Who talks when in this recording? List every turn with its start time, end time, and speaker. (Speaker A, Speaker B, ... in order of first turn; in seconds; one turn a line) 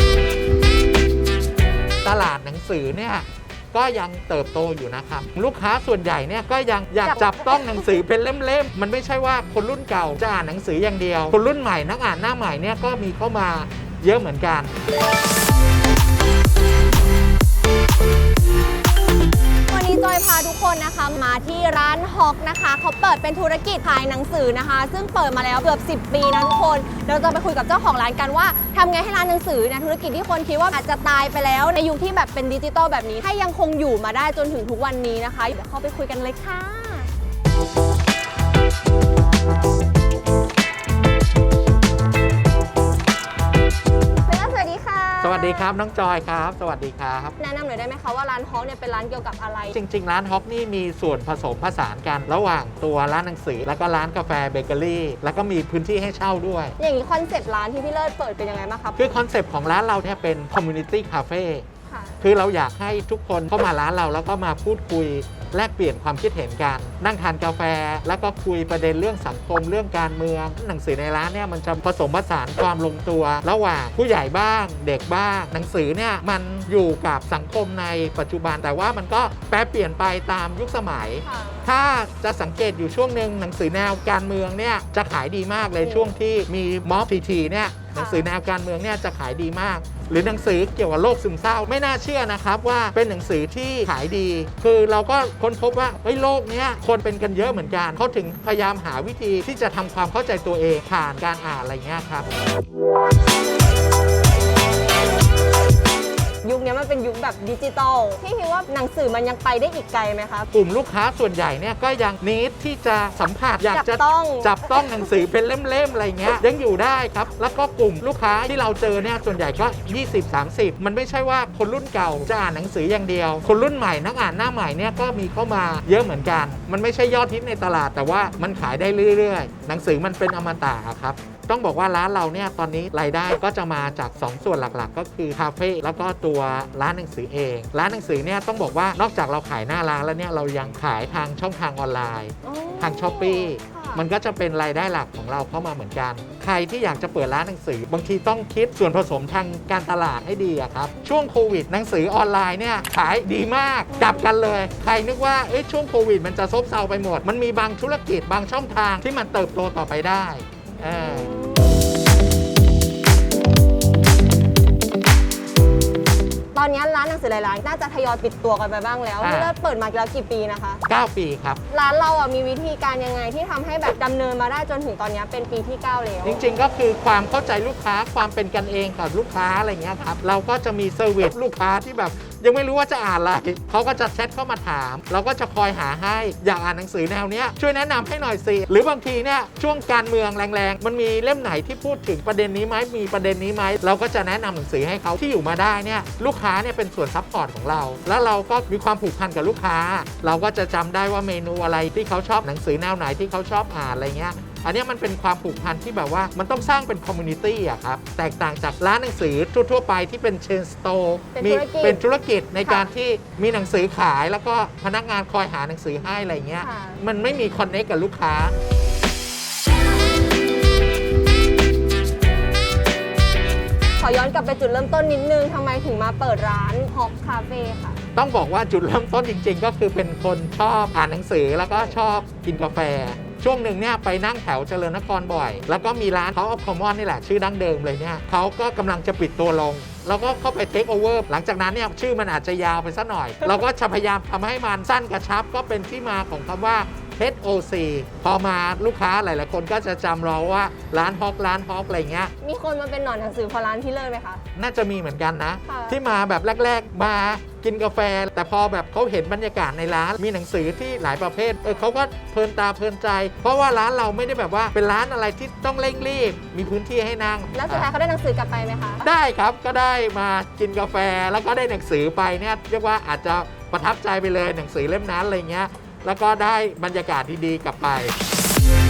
Speaker A: 2.0-14.7
Speaker B: 7.1-8.0
Speaker B: 19.7-37.1
Speaker B: 44.3-45.7
Speaker A: 45.2-47.4
Speaker B: 47.4-49.8
Speaker A: 49.7-56.8
Speaker B: 56.8-59.0
Speaker A: 59.0-61.6
Speaker B: 61.9-62.2
Speaker A: 62.2-102.3
Speaker B: 81.2-81.7
Speaker B: 85.8-86.1
Speaker B: 87.9-88.3
Speaker B: 106.4-110.5
Speaker A: 110.5-161.3
Speaker B: 113.7-115.0
Speaker B: 142.4-144.1
Speaker B: 153.9-154.3
Speaker B: 160.8-161.9
Speaker B: 166.6-170.8
Speaker A: 169.2-169.5
Speaker A: 170.9-171.6
Speaker B: 171.7-176.4
Speaker A: 176.2-218.6
Speaker B: 211.4-212.0
Speaker B: 216.6-217.0
Speaker B: 224.0-228.0
Speaker A: 228.2-252.3
Speaker B: 252.4-254.4
Speaker A: 254.6-267.9
Speaker B: 255.7-256.0
Speaker B: 267.5-269.1
Speaker A: 269.0-278.1